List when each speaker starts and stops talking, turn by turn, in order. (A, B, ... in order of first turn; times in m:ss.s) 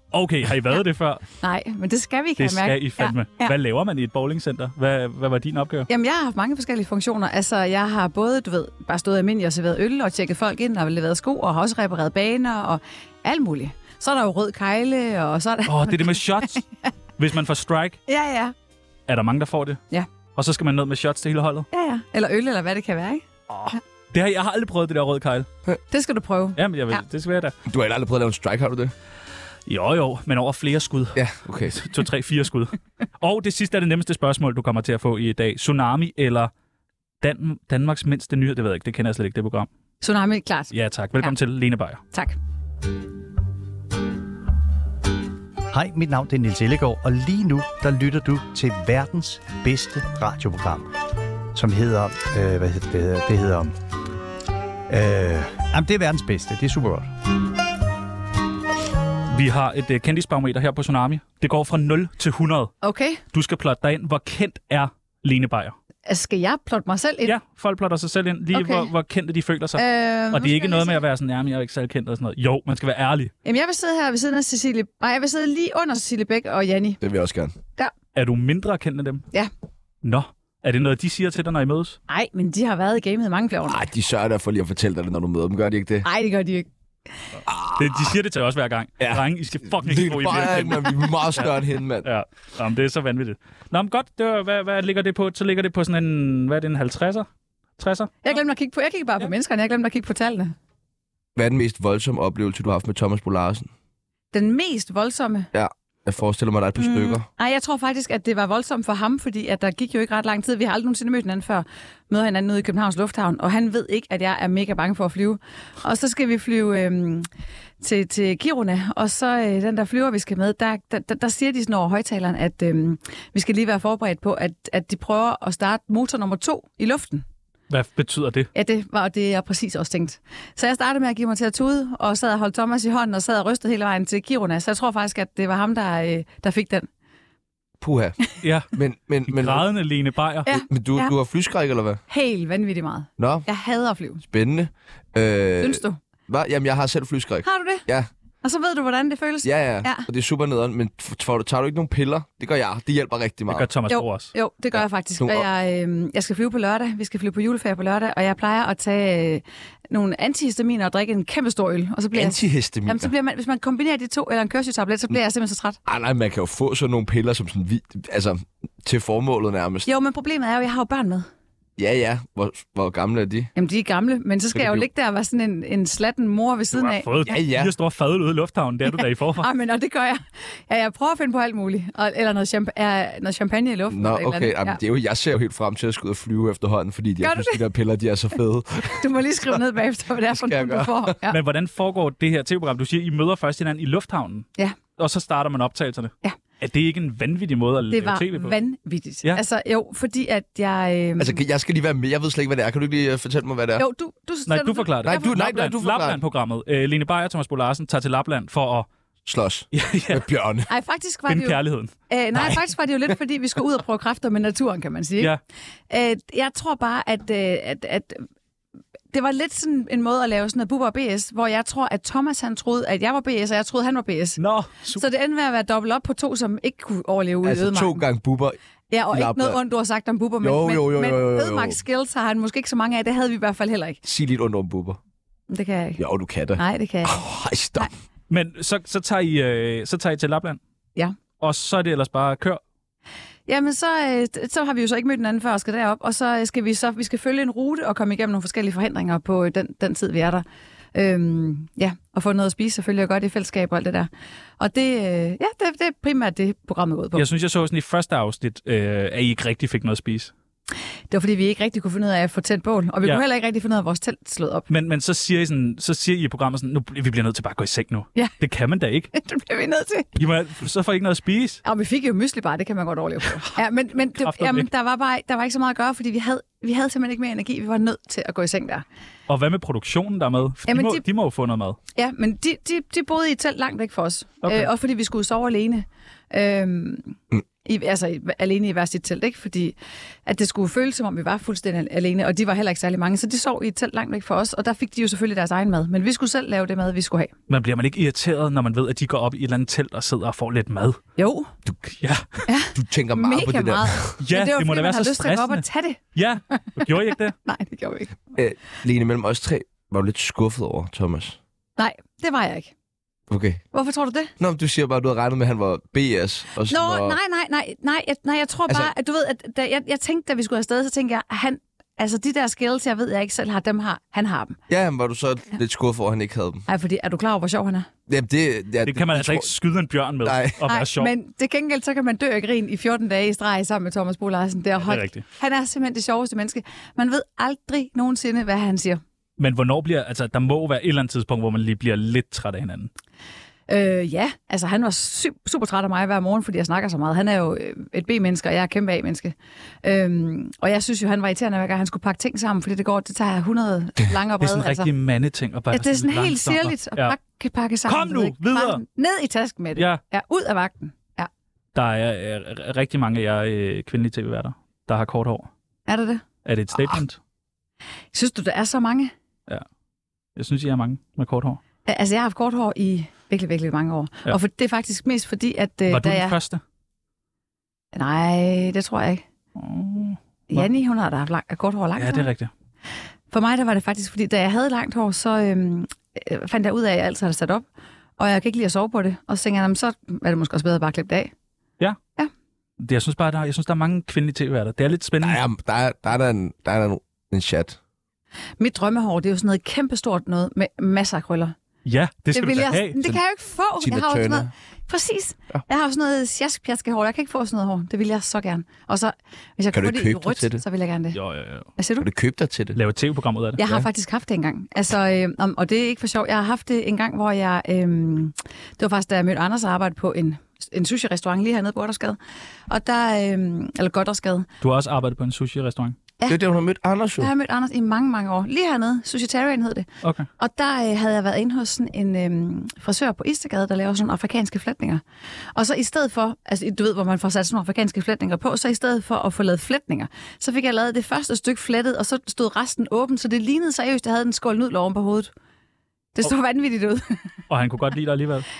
0:00.1-0:01.2 A
0:01.4-0:03.5 B
0:02.4-0:05.9 A
0:05.9-0:16.6 B
0:15.6-0:16.6 A
0:17.2-0:18.0 A
0:18.1-0:18.5 B
0:19.1-0:19.8 A
0:20.3-0:21.7 A
0:21.7-0:23.8 B
0:23.5-0:25.5 A
0:25.9-0:27.0 B
0:26.6-0:27.5 A
0:27.6-0:28.9 C
0:29.7-0:36.5 A
0:31.1-0:31.8 C
0:37.2-0:39.7 A
0:40.0-0:41.3 B
0:40.7-0:42.0 A
0:45.7-0:50.9 D
0:51.5-0:53.7 D
0:54.9-0:57.1 D
0:59.3-1:02.7 A
1:02.8-1:03.2 B
1:03.3-1:05.7 A
1:06.0-1:07.3 B
1:07.2-1:13.3 A
1:08.5-1:08.9 B
1:09.8-1:11.0 B
1:13.4-1:17.0 B
1:17.0-1:17.5 C
1:18.1-1:19.2 A
1:20.0-1:22.0 A
1:22.1-1:23.8 B
1:23.7-1:26.1 C
1:26.0-1:26.7 B
1:27.5-1:28.0 C
1:27.7-1:31.5 A
1:29.0-1:32.1 C
1:32.0-1:37.3 A
1:37.8-1:38.3 A
1:38.2-1:40.5 B
1:41.4-1:43.7 C
1:44.3-1:45.5 B
1:45.5-1:47.3 C
1:46.8-1:57.3 B
1:57.8-2:07.2 B
2:07.7-2:08.5 A
2:08.5-2:16.9 B
2:17.8-2:18.2 C
2:18.4-2:18.7 A
2:18.7-2:19.7 C
2:19.2-2:20.5 A
2:20.4-2:21.1 B
2:20.5-2:22.0 C
2:22.1-2:24.2 B
2:23.2-2:23.5 C
2:24.2-2:28.1 C
2:25.6-2:26.0 B
2:27.4-2:27.8 B
2:28.4-2:30.1 B
2:29.4-2:33.7 C
2:33.5-2:34.3 A
2:33.9-2:45.8 B
2:35.2-2:35.4 C
2:42.1-2:43.1 C
2:45.8-2:49.9 C
2:49.8-2:51.3 B
2:51.8-2:53.5 C
2:53.5-2:57.1 B
2:54.5-2:54.8 C
2:56.7-2:59.4 A
2:57.2-2:57.7 C
2:59.4-3:04.8 B
3:03.9-3:09.0 C
3:07.2-3:07.6 B
3:09.0-3:11.4 B
3:10.3-3:11.2 C
3:11.3-3:18.6 A
3:17.9-3:21.4 B
3:21.2-3:23.8 C
3:23.8-3:25.4 B
3:24.5-3:28.9 A
3:25.0-3:26.2 C
3:29.2-3:30.7 C
3:29.7-3:30.3 A
3:30.7-3:31.6 B
3:31.3-3:31.9 A
3:32.1-3:35.3 B
3:35.9-3:38.2 B
3:39.1-3:44.4 B
3:44.4-3:45.0 A
3:45.0-3:48.0 B
3:47.4-3:48.6 C
3:48.9-3:54.0 B
3:49.1-3:49.6 C
3:50.4-3:51.8 C
3:54.0-3:55.0 C
3:55.5-3:56.0 B
3:56.0-3:57.9 C
3:56.6-3:57.2 B
3:58.3-4:00.6 A
4:01.4-4:02.6 A
4:03.5-4:17.2 B
4:17.1-4:20.3 A
4:21.1-4:24.7 B
4:24.7-4:29.1 A
4:29.1-4:30.1 B
4:30.2-4:31.6 A
4:31.6-4:38.8 B
4:34.2-4:34.7 A
4:39.3-4:41.8 A
4:40.7-4:41.0 B
4:42.0-4:57.3 B
4:44.4-4:44.7 A
4:57.5-5:01.0 A
5:01.2-5:01.5 B
5:02.0-5:02.4 A
5:02.5-5:06.0 B
5:02.7-5:04.2 C
5:04.2-5:07.3 A
5:06.5-5:08.1 B
5:08.3-5:11.4 C
5:11.8-5:12.7 B
5:13.3-5:13.6 C
5:13.7-5:14.3 B
5:14.4-5:17.2 C
5:16.7-5:24.6 B
5:24.7-5:26.6 C
5:26.7-5:27.9 B
5:28.1-5:29.5 C
5:28.8-5:31.1 A
5:30.2-5:30.6 C
5:30.6-5:39.0 B
5:34.8-5:35.2 A
5:39.4-5:42.9 A
5:43.7-5:54.9 B
5:54.4-5:57.2 A
5:55.7-6:01.3 B
5:57.8-5:58.8 A
5:59.8-6:00.0 A
6:01.7-6:05.5 A
6:05.9-6:06.2 B
6:06.4-6:07.2 A
6:08.1-6:09.1 B
6:10.4-6:11.6 A
6:11.8-6:16.3 B
6:15.9-6:16.6 A
6:17.9-6:19.2 B
6:19.6-6:20.7 A
6:20.5-6:22.3 B
6:22.0-6:22.5 A
6:23.3-6:27.6 B
6:28.2-6:31.3 B
6:32.8-6:35.4 A
6:35.2-6:37.8 C
6:38.6-6:41.5 B
6:41.8-6:43.0 A
6:42.3-6:51.2 B
6:43.8-6:44.5 C
6:49.7-6:50.6 C
6:51.1-6:51.7 A
6:51.8-6:52.1 B
6:52.0-6:52.8 C
6:52.7-6:53.6 A
6:53.6-7:02.2 B
7:02.7-7:04.5 B
7:04.6-7:06.0 A
7:06.3-7:07.3 C
7:07.2-7:09.9 B
7:10.4-7:15.0 B
7:15.5-7:25.3 B
7:26.1-7:27.3 B
7:27.5-7:28.5 A